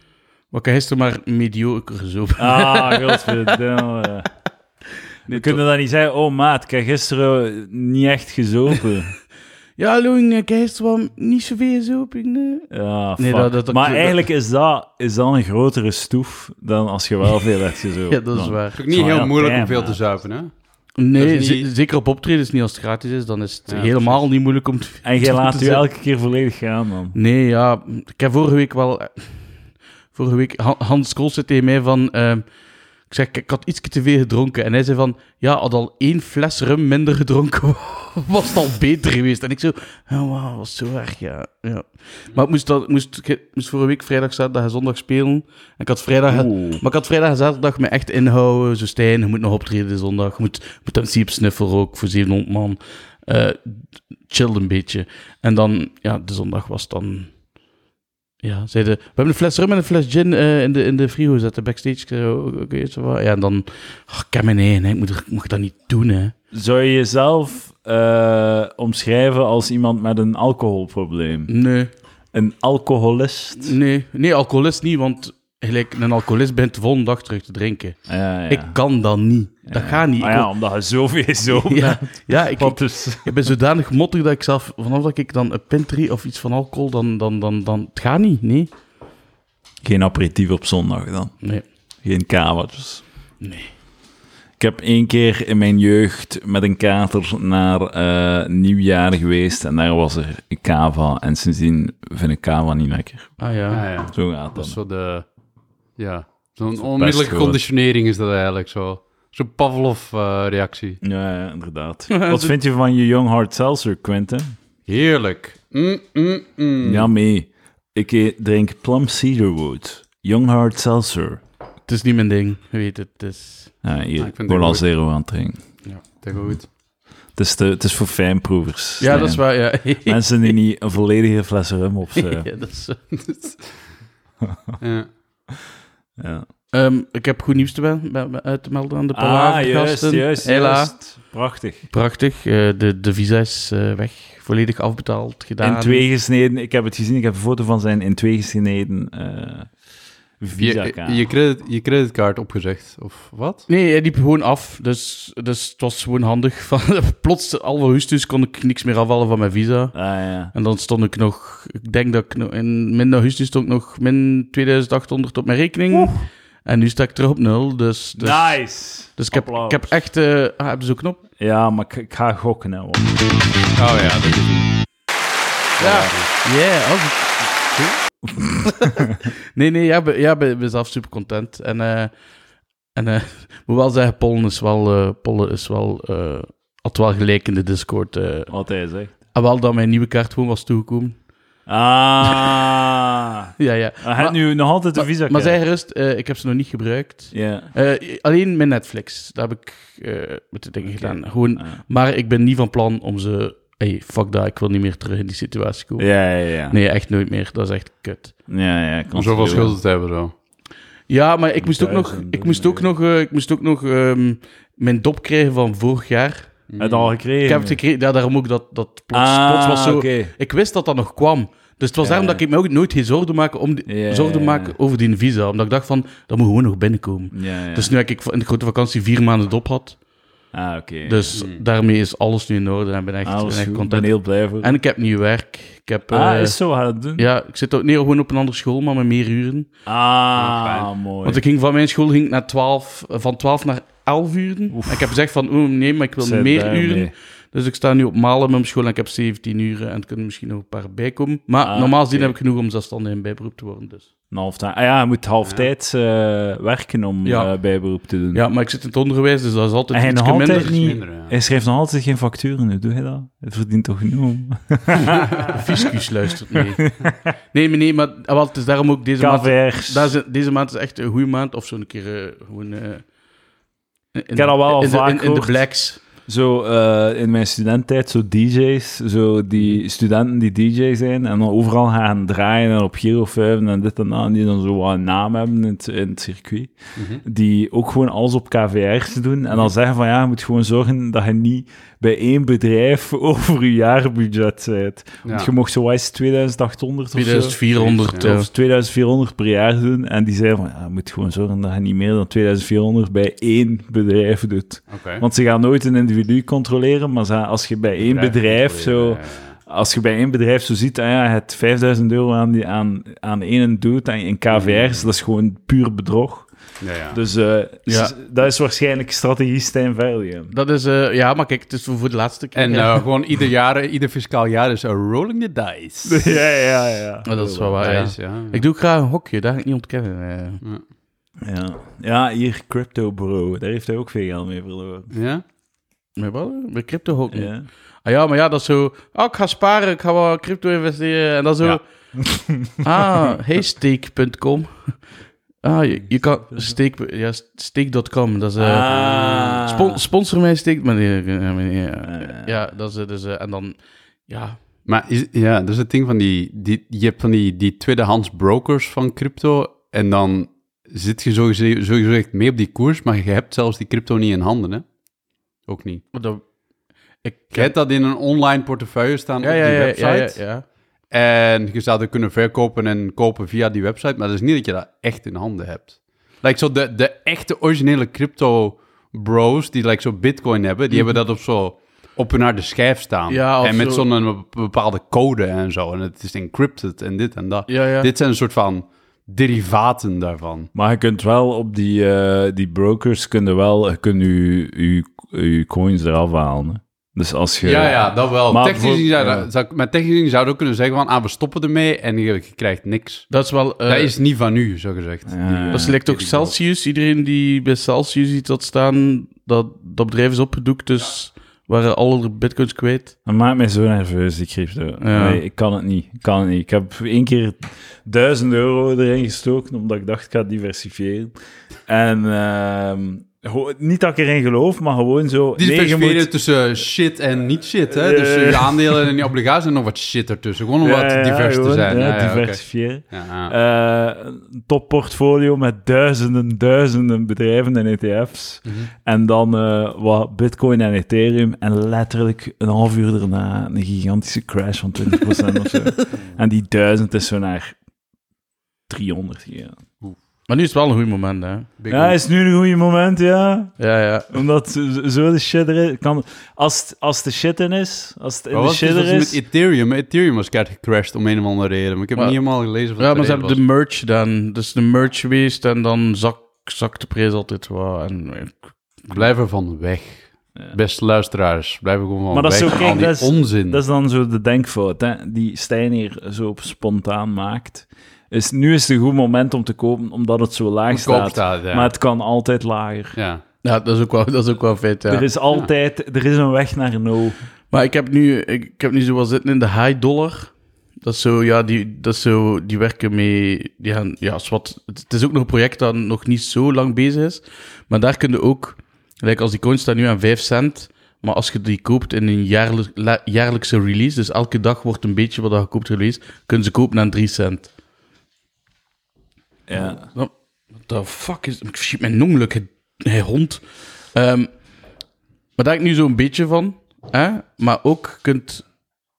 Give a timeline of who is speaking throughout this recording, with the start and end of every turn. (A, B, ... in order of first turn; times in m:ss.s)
0:00.5-0:03.6 A
0:02.4-0:04.3 B
0:05.3-0:05.6 A
0:05.3-0:09.1 B
0:09.8-0:14.2 A
0:12.7-0:20.0 B
0:18.1-0:18.8 A
0:18.8-0:20.5 C
0:21.0-0:25.8 A
0:21.2-0:21.7 C
0:23.7-0:24.2 C
0:25.0-0:27.2 B
0:27.1-0:29.4 A
0:30.1-0:32.5 A
0:33.1-0:57.3 A
0:46.3-0:46.8 B
0:58.4-1:06.3 A
1:06.5-1:11.5 B
1:11.5-1:11.9 A
1:12.3-1:13.8 B
1:13.6-1:18.0 A
1:18.1-1:18.8 B
1:18.5-1:20.5 A
1:19.7-1:23.4 B
1:21.5-1:28.7 A
1:29.8-1:31.3 B
1:32.0-1:33.0 B
1:33.4-1:33.7 A
1:34.6-1:43.3 B
1:43.4-1:43.9 A
1:43.7-1:45.2 C
1:44.1-1:44.8 B
1:46.0-1:51.0 C
1:46.8-1:47.6 B
1:51.0-1:54.6 B
1:52.1-1:52.6 A
1:54.9-1:57.1 C
1:56.8-2:01.4 B
2:01.9-2:03.7 A
2:03.8-2:05.6 B
2:04.2-2:04.8 C
2:06.2-2:06.7 C
2:07.4-2:09.4 B
2:09.0-2:10.2 A
2:10.0-2:12.5 B
2:12.2-2:13.0 A
2:13.3-2:13.6 C
2:14.4-2:14.7 B
2:14.8-2:15.1 C
2:16.2-2:16.5 B
2:16.7-2:20.9 A
2:19.1-2:21.9 B
2:21.9-2:26.0 A
2:25.6-2:29.7 B
2:30.4-2:31.3 B
2:30.6-2:33.6 C
2:33.7-2:40.0 A
2:39.9-2:40.5 B
2:40.5-2:48.6 A
2:45.9-2:46.2 B
2:48.2-2:49.9 B
2:49.2-2:51.2 A
2:51.4-2:53.3 B
2:53.8-2:54.7 C
2:55.8-2:56.3 C
2:55.8-2:57.9 A
2:58.3-2:59.3 B
2:58.6-3:02.1 A
3:03.0-3:08.5 A
3:08.5-3:09.1 B
3:09.3-3:11.2 A
3:11.7-3:15.6 B
3:12.3-3:12.6 A
3:13.6-3:14.4 A
3:15.0-3:26.1 A
3:17.3-3:17.7 B
3:20.8-3:21.8 B
3:26.0-3:26.8 B
3:26.7-3:28.3 A
3:28.5-3:29.8 B
3:29.2-3:30.3 C
3:31.1-3:36.5 A
3:31.6-3:32.9 B
3:36.7-3:37.1 C
3:36.8-3:37.8 B
3:37.4-3:50.0 A
3:39.1-3:40.3 B
3:42.0-3:42.4 B
3:43.9-3:44.8 B
3:47.3-3:47.9 B
3:50.5-3:51.4 B
3:51.1-3:56.6 A
3:51.3-3:51.6 C
3:53.2-3:54.8 B
3:56.1-3:57.3 B
3:57.2-3:59.7 A
3:59.9-4:01.4 B
4:00.4-4:00.9 C
4:01.2-4:14.1 A
4:04.7-4:05.1 B
4:06.2-4:07.1 B
4:11.6-4:12.3 B
4:14.3-4:18.4 B
4:17.2-4:17.5 A
4:18.3-4:20.8 A
4:19.9-4:25.9 B
4:20.5-4:21.3 C
4:25.1-4:25.5 C
4:25.5-4:26.8 A
4:26.8-4:27.3 B
4:27.5-4:33.0 A
4:29.2-4:30.1 B
4:34.2-4:36.0 A
4:34.4-4:35.6 B
4:36.3-4:57.6 B
4:47.0-4:47.2 C
4:55.2-4:55.5 C
4:57.2-4:58.5 A
4:57.8-4:58.3 C
4:58.2-5:16.5 B
5:04.9-5:05.2 C
5:08.0-5:09.5 C
5:14.5-5:15.1 C
5:16.8-5:17.2 C
5:17.1-5:20.5 B
5:17.9-5:18.1 A
5:20.5-5:23.1 A
5:22.6-5:26.3 C
5:26.0-5:28.0 B
5:27.2-5:30.6 A
5:27.8-5:28.6 C
5:31.4-5:35.1 B
5:35.1-5:35.4 C
5:36.2-5:37.5 A
5:37.3-5:37.7 B
5:38.0-5:41.8 A
5:42.2-5:42.8 B
5:42.8-5:45.0 A
5:45.6-5:54.6 A
5:48.6-5:50.0 B
5:52.0-5:52.5 B
5:54.9-6:04.8 C
6:05.7-6:06.0 C
6:06.1-6:06.4 A
6:07.2-6:07.7 A
6:07.5-6:10.4 C
6:09.4-6:10.6 A
6:11.1-6:30.7 C
6:20.9-6:21.2 A
6:23.3-6:24.1 A
6:27.7-6:28.1 A
6:30.8-6:39.5 B
6:37.6-6:43.3 C
6:43.3-6:44.1 A
6:43.9-6:46.6 C
6:45.3-6:46.0 B
6:45.7-6:53.1 A
6:53.3-7:01.3 B
6:55.0-6:55.4 A
7:01.9-7:06.3 B
7:05.6-7:13.5 C
7:07.9-7:09.1 B
7:10.8-7:27.8 B
7:18.7-7:18.9 C
7:28.9-7:29.8 B
7:30.5-7:31.7 A
7:31.8-7:32.2 C
7:31.9-7:33.7 B
7:33.8-7:34.3 A
7:34.3-7:39.4 B
7:38.5-7:43.6 C
7:43.0-7:49.3 A
7:49.1-7:53.8 C
7:52.3-8:03.2 B
8:00.9-8:01.9 C
8:03.2-8:03.4 C
8:03.6-8:05.3 A
8:05.1-8:07.4 B
8:07.7-8:27.7 A
8:29.7-8:30.1 B
8:29.8-8:33.6 A
8:34.1-8:34.5 A
8:35.6-8:38.7 A